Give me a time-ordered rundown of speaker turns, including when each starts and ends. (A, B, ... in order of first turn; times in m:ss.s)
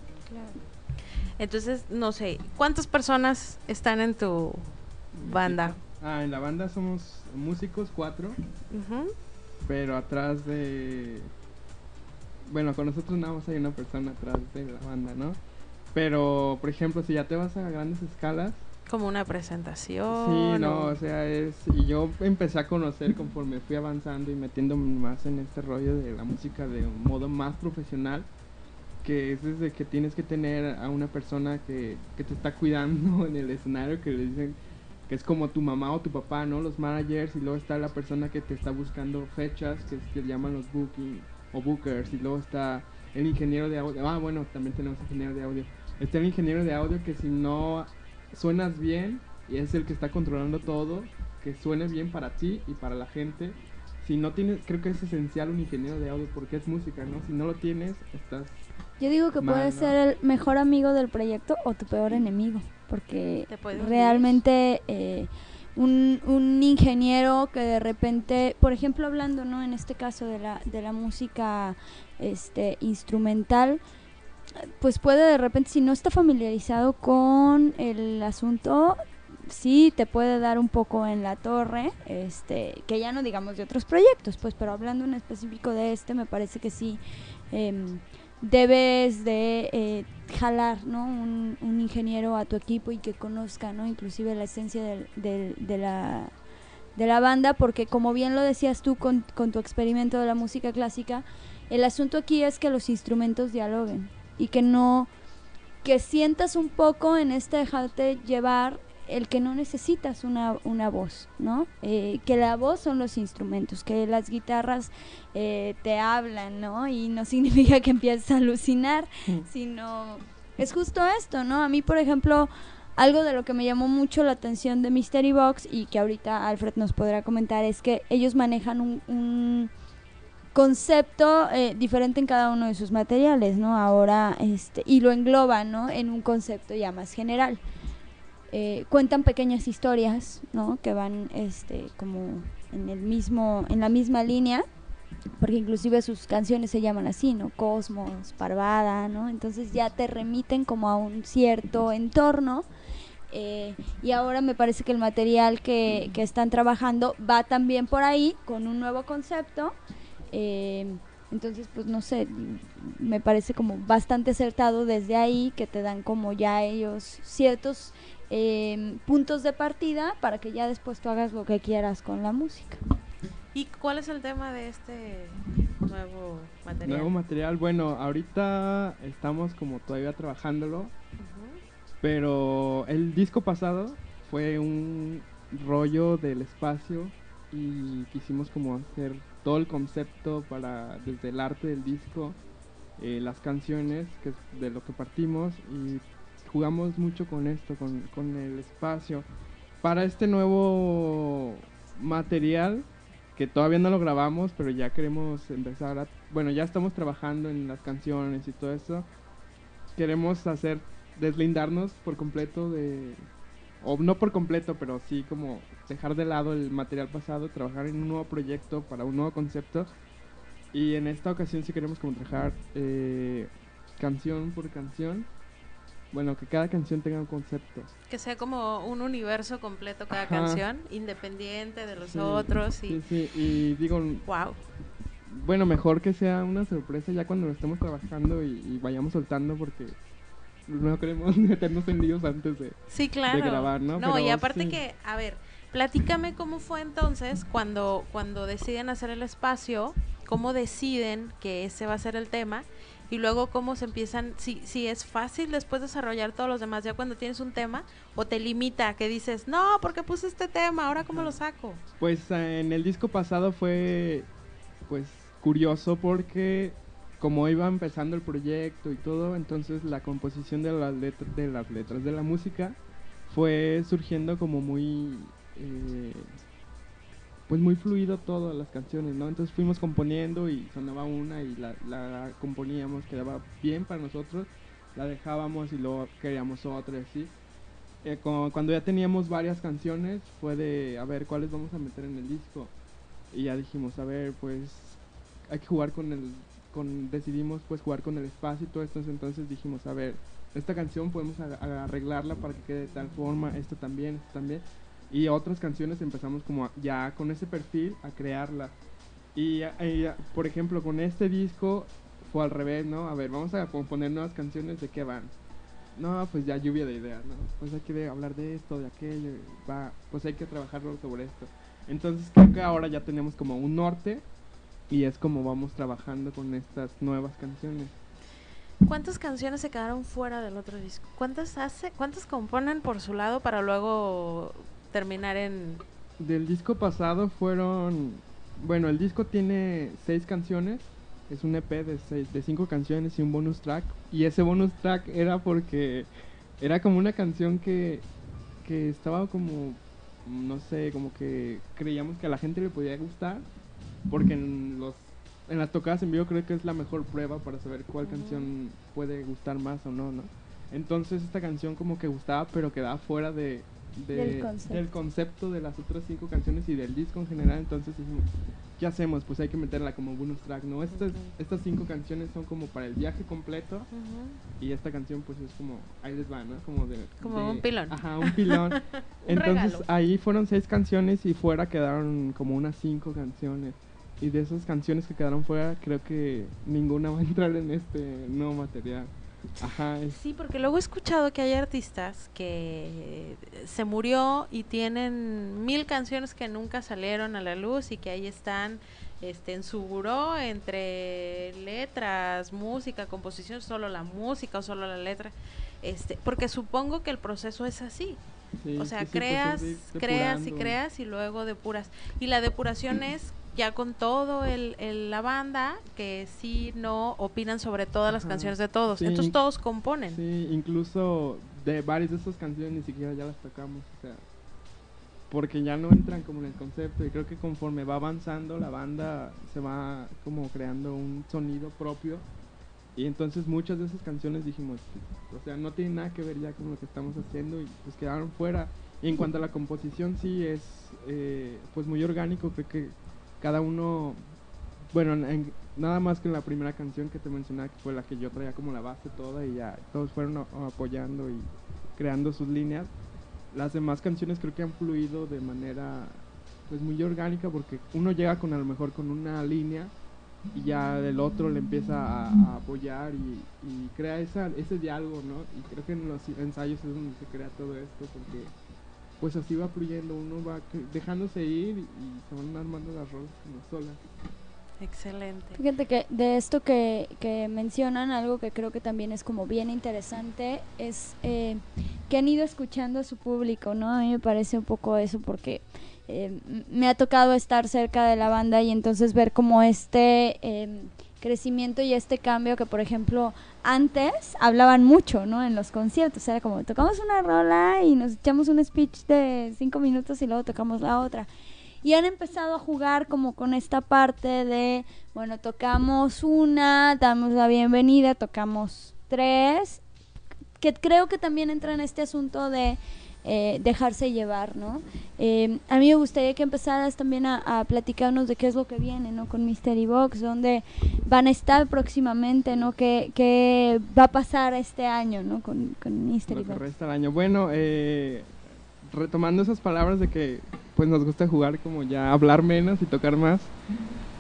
0:01.4-0:04.7 A
0:05.2-0:08.4 B
0:05.2-0:05.8 A
0:08.7-0:09.1 A
0:09.7-0:11.3 B
0:12.5-0:15.4 B
0:15.9-0:18.6 B
0:18.9-0:21.0 A
0:20.1-0:28.3 B
0:29.0-0:34.6 B
0:35.1-0:58.6 B
0:59.0-1:13.8 C
0:59.4-1:00.0 B
1:03.5-1:04.4 A
1:14.7-1:36.3 C
1:37.0-1:45.1 C
1:45.8-2:09.7 C
2:10.5-2:17.6 C
2:18.5-2:24.7 C
2:25.4-2:32.7 C
2:33.3-2:39.8 C
2:40.3-2:52.8 C
2:53.5-2:57.1 A
2:56.8-3:00.9 B
3:01.2-3:01.6 A
3:02.0-3:12.4 B
3:13.0-3:19.3 B
3:19.8-3:29.1 B
3:30.0-3:33.2 B
3:33.8-3:39.9 B
3:40.7-3:45.3 B
3:46.1-3:47.9 B
3:48.1-3:53.0 A
3:50.1-3:50.6 B
3:52.0-3:54.3 B
3:54.3-3:54.6 A
3:55.3-4:00.0 B
4:00.7-4:02.8 B
4:02.9-4:21.8 A
4:03.3-4:04.8 B
4:21.1-4:21.4 B
4:22.0-4:24.3 B
4:24.9-4:36.4 B
4:37.5-4:47.3 B
4:48.0-4:52.7 B
4:53.3-5:08.8 B
5:09.4-5:15.3 B
5:16.0-5:24.2 B
5:24.9-5:28.0 B
5:28.8-5:35.8 A
5:36.2-5:46.1 B
5:46.6-5:48.1 B
5:48.6-5:53.5 B
5:54.1-6:13.9 B
5:58.0-5:58.5 A
6:04.1-6:04.8 C
6:10.9-6:11.3 A
6:13.9-6:14.4 A
6:14.6-6:30.2 B
6:17.2-6:19.9 A
6:30.1-6:48.2 A
6:48.6-6:50.8 B
6:48.8-7:00.2 A
6:58.1-6:59.4 B
7:00.1-7:04.2 B
7:05.3-7:12.2 B
7:13.0-7:24.2 B
7:24.9-7:32.9 B
7:33.5-7:39.9 B
7:40.5-7:48.6 B
7:49.2-7:54.0 B
7:54.8-7:55.6 A
7:55.6-8:21.3 C
8:21.8-8:29.8 C
8:30.6-8:46.6 C
8:46.3-8:53.5 B